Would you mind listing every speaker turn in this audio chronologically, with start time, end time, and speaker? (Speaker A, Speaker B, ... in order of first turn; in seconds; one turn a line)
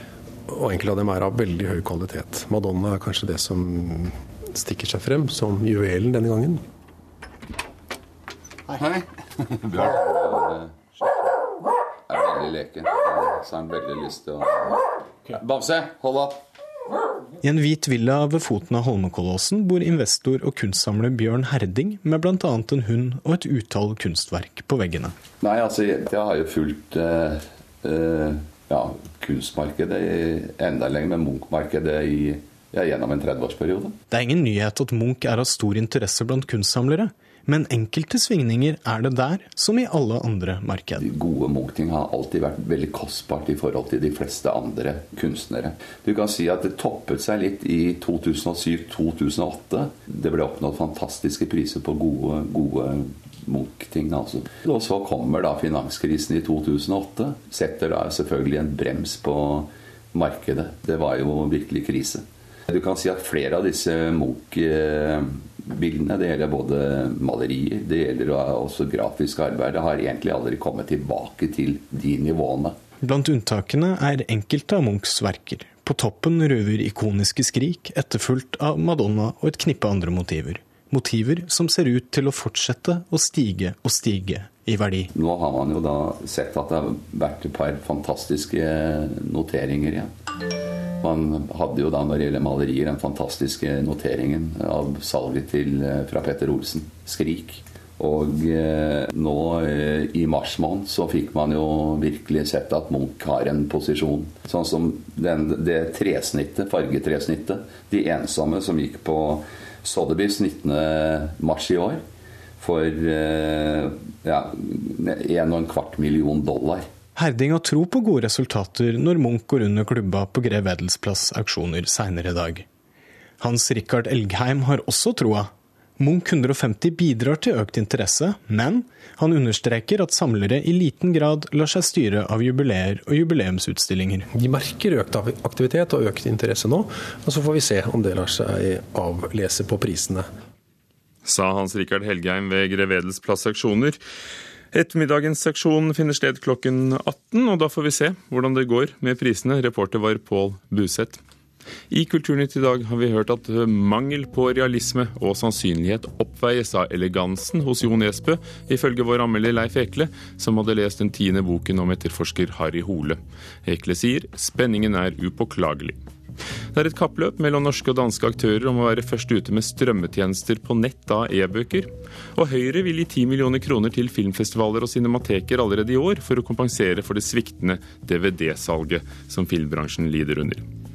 Speaker A: 0.5-6.6
Speaker B: 8.7-11.2
Speaker B: 12.1-16.4
Speaker C: 17.4-25.1
Speaker B: 25.4-34.0
Speaker C: 34.1-41.0
Speaker B: 41.0-72.8
Speaker C: 73.0-85.1
Speaker B: 85.1-90.1
Speaker B: 91.0-112.0
Speaker B: 112.6-116.9
Speaker C: 117.2-122.7
Speaker C: 123.4-134.3
Speaker A: 134.3-140.2
Speaker D: 141.2-144.0
Speaker D: 144.7-151.2
Speaker D: 151.9-166.0
Speaker D: 166.7-180.6